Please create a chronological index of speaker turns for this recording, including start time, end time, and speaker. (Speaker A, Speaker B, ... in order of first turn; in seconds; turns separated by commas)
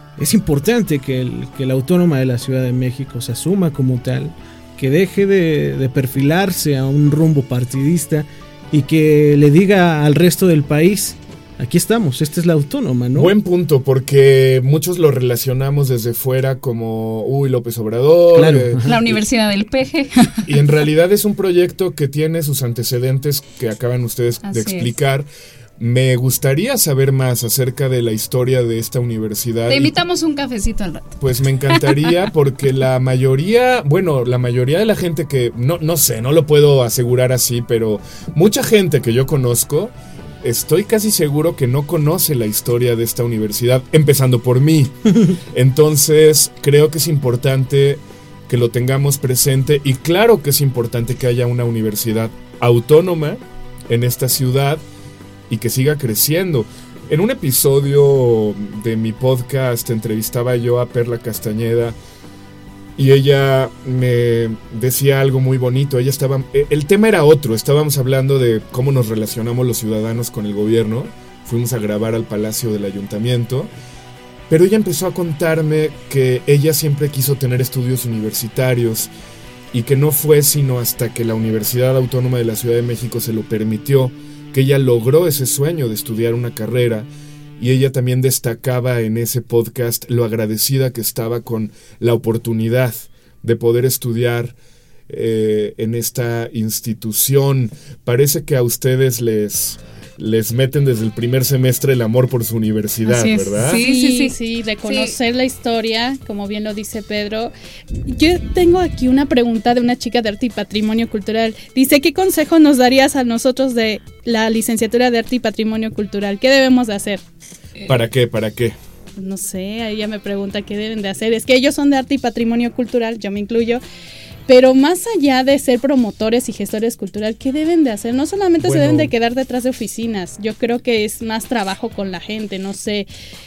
Speaker A: 0.2-13.3, Speaker B: 13.1-19.2, Speaker A: 18.3-18.9, Speaker C: 18.9-20.6, Speaker B: 20.4-29.9, Speaker C: 24.4-24.9, Speaker C: 29.7-31.2, Speaker B: 31.2-54.8, Speaker C: 31.7-32.1, Speaker B: 55.5-62.0, Speaker B: 63.0-73.7, Speaker B: 74.5-79.1, Speaker B: 79.7-94.5, Speaker B: 95.1-103.8, Speaker C: 103.0-105.1, Speaker D: 103.7-107.5, Speaker D: 108.0-117.2, Speaker B: 117.8-118.8, Speaker D: 119.2-123.8, Speaker D: 124.5-133.1, Speaker B: 128.6-129.1